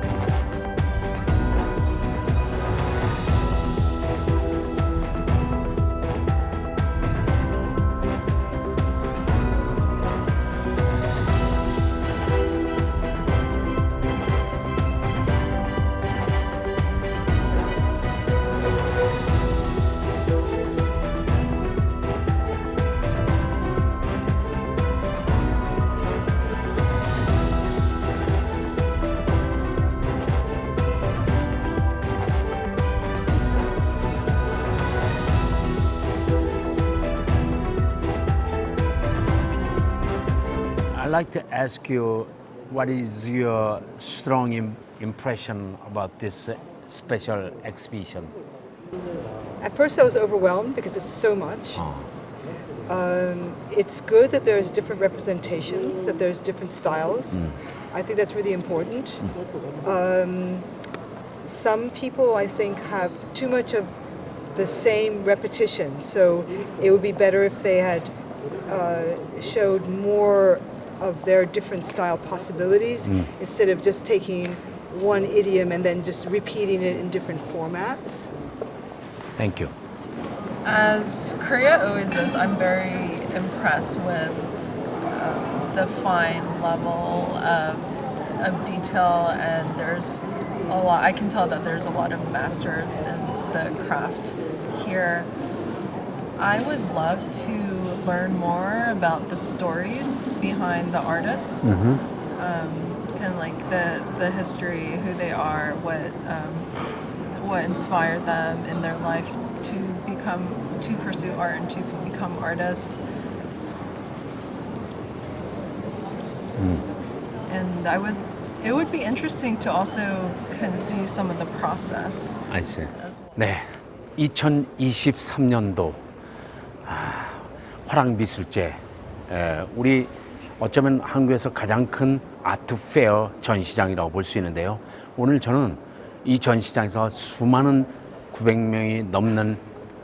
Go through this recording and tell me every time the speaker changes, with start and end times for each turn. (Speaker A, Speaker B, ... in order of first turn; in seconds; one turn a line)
Speaker A: 40.9-48.3
Speaker B: 49.6-51.9
Speaker A: 51.7-52.1
Speaker B: 52.9-59.3
Speaker A: 57.3-57.6
Speaker B: 59.8-60.7
Speaker B: 61.4-64.0
Speaker B: 64.5-78.3
Speaker A: 73.0-73.3
Speaker A: 79.4-79.7
Speaker C: 80.6-84.5
Speaker C: 85.0-95.3
Speaker C: 96.4-101.8
Speaker A: 101.6-102.0
Speaker C: 102.3-106.7
Speaker C: 107.3-113.0
Speaker A: 116.6-116.9
Speaker C: 117.5-123.3
Speaker A: 122.5-126.0
Speaker A: 126.8-139.6